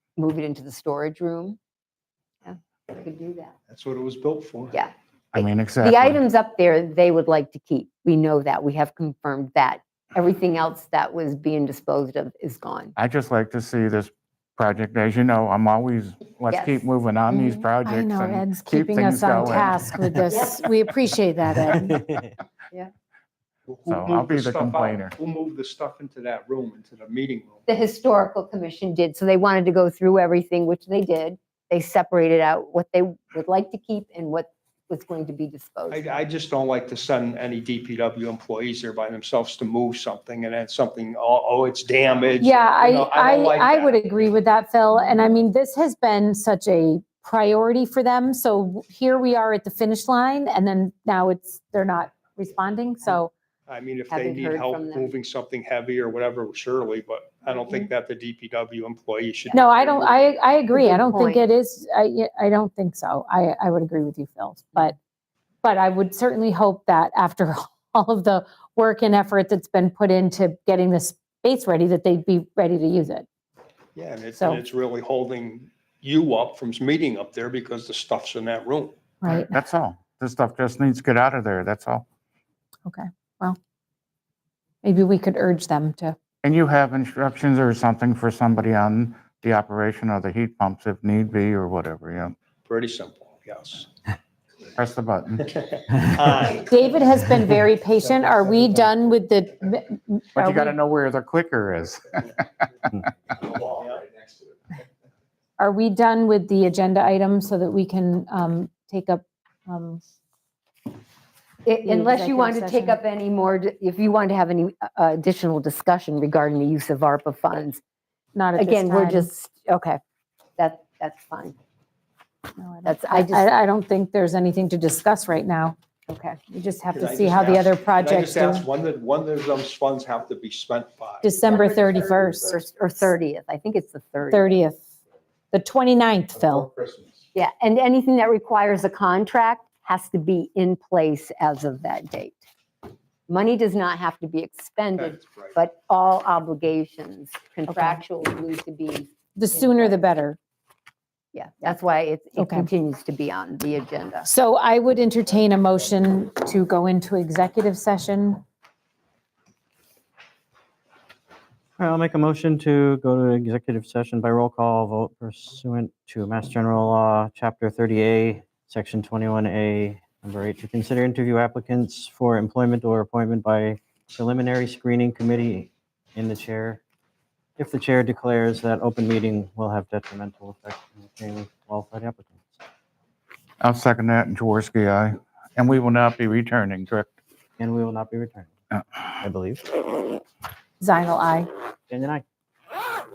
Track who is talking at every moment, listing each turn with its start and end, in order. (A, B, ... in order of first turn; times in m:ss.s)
0:00.2-0:01.6 A
0:02.4-0:03.5 A
0:03.7-0:04.7 B
0:04.7-0:13.0 A
0:05.3-0:06.2 C
0:13.0-0:20.2 C
0:16.5-0:16.8 A
0:17.3-0:22.0 D
0:20.3-0:20.6 A
0:21.8-0:22.3 E
0:23.7-0:27.6 B
0:23.9-0:25.2 C
0:27.7-0:36.2 A
0:35.9-0:44.0 B
0:42.4-0:53.3 D
0:53.7-1:00.1 B
0:54.1-0:55.1 A
0:59.5-1:05.0 D
1:00.7-1:01.5 A
1:05.6-1:13.3 D
1:14.0-1:19.0 B
1:14.4-1:14.6 D
1:19.2-1:19.6 D
1:19.3-1:22.1 C
1:22.9-1:23.6 D
1:24.8-1:26.2 D
1:26.4-1:32.4 C
1:32.7-1:33.9 B
1:34.8-1:35.5 C
1:36.1-1:36.6 B
1:36.5-1:40.8 D
1:40.4-1:42.4 C
1:43.7-1:44.0 B
1:45.6-1:50.0 D
1:51.7-1:57.8 A
1:51.8-1:53.0 D
1:58.4-1:59.3 D
1:58.6-2:00.0 A
2:00.6-2:01.6 A
2:02.6-2:05.8 D
2:02.8-2:03.5 A
2:06.1-2:06.4 A
2:06.5-2:08.7 D
2:06.9-2:11.3 B
2:11.2-2:12.6 D
2:11.5-2:14.6 A
2:14.3-2:14.8 D
2:15.5-2:16.7 D
2:17.3-2:22.4 A
2:23.3-2:30.0 A
2:25.0-2:25.5 B
2:27.7-2:28.0 D
2:29.4-2:30.4 D
2:31.3-2:34.3 A
2:32.4-2:32.7 D
2:34.2-2:38.4 D
2:41.8-2:56.8 E
2:57.6-3:02.6 E
3:03.6-3:07.1 C
3:07.6-3:09.6 E
3:10.8-3:11.5 D
3:11.9-3:12.2 E